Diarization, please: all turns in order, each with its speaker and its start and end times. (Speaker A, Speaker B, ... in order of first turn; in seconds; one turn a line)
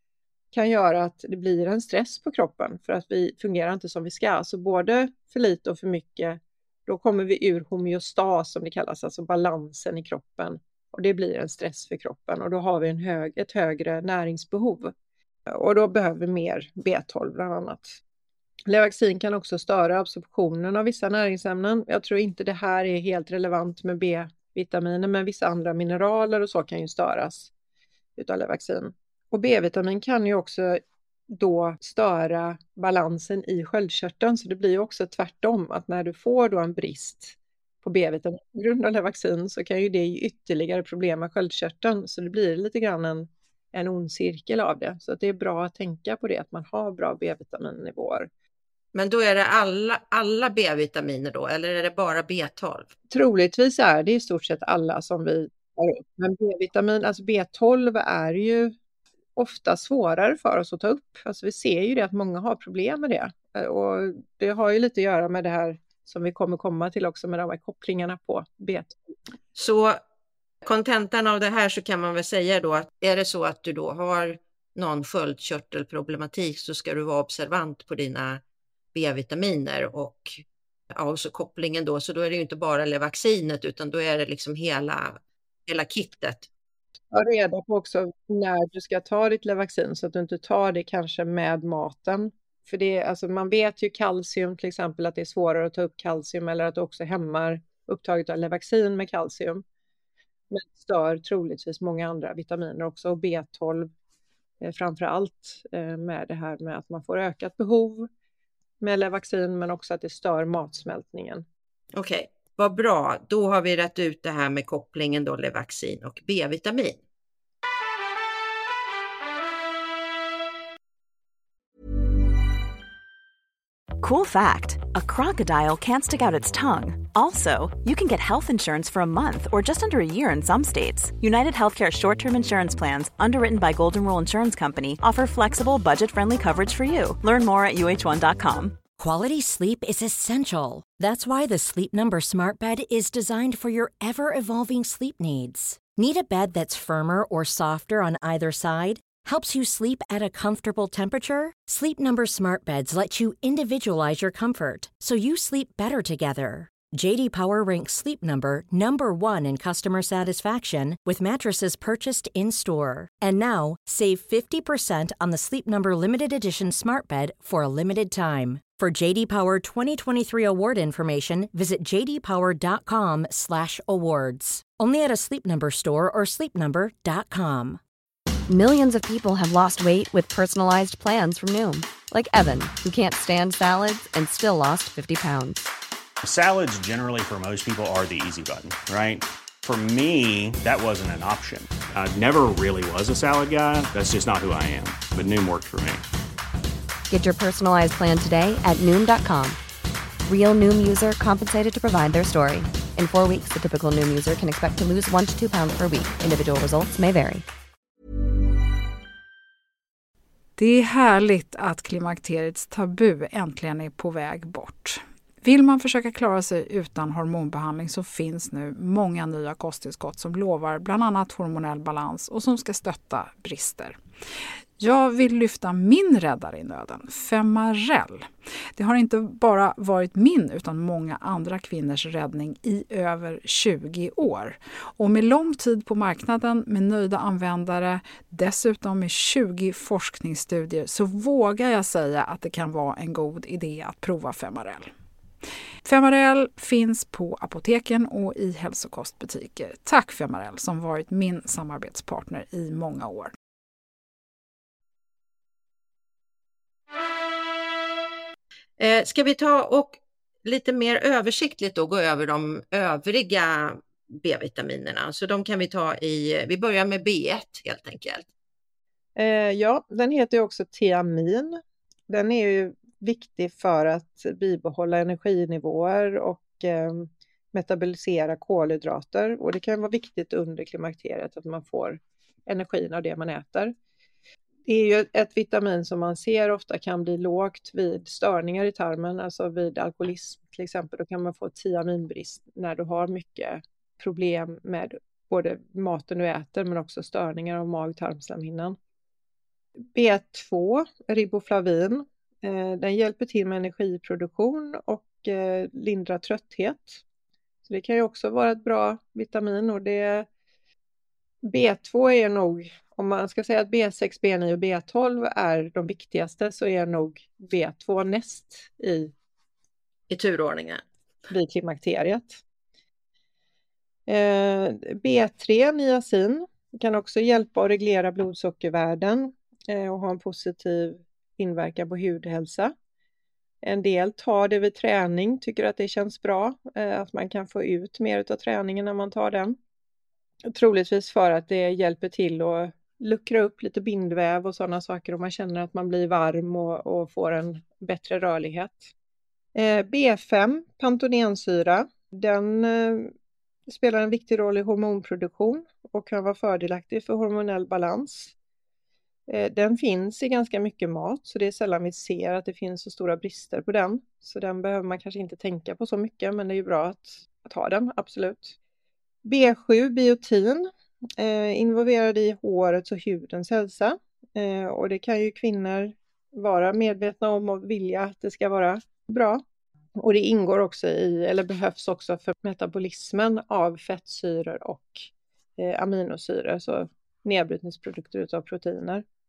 Speaker A: 0.5-14.9
Speaker A: 15.5-18.0
Speaker A: 18.7-27.5
Speaker A: 28.1-48.3
Speaker B: 48.9-52.9
Speaker A: 53.1-58.7
Speaker A: 59.4-69.0
Speaker B: 69.5-70.0
Speaker B: 70.6-78.4
Speaker B: 78.9-86.5
Speaker A: 87.1-99.6
Speaker A: 100.5-103.9
Speaker A: 104.6-108.1
Speaker A: 108.8-111.4
Speaker B: 111.9-117.0
Speaker C: 124.0-138.8
Speaker D: 139.0-177.8
Speaker E: 178.5-185.6
Speaker F: 186.2-196.0
Speaker E: 197.1-199.6
Speaker E: 200.2-207.4
Speaker G: 210.6-224.0
Speaker G: 224.8-244.9
Speaker G: 245.8-253.3
Speaker B: 258.8-268.3
Speaker A: 269.1-283.7
Speaker A: 284.6-298.8
Speaker A: 299.9-307.0
Speaker A: 307.6-310.3
Speaker A: 311.4-319.1
Speaker B: 320.1-320.8
Speaker A: 321.3-322.4
Speaker A: 324.1-332.7
Speaker A: 333.6-339.6
Speaker A: 340.5-348.9
Speaker A: 349.5-353.1
Speaker A: 353.7-358.3
Speaker A: 359.3-368.5
Speaker A: 369.2-379.4
Speaker A: 380.0-389.0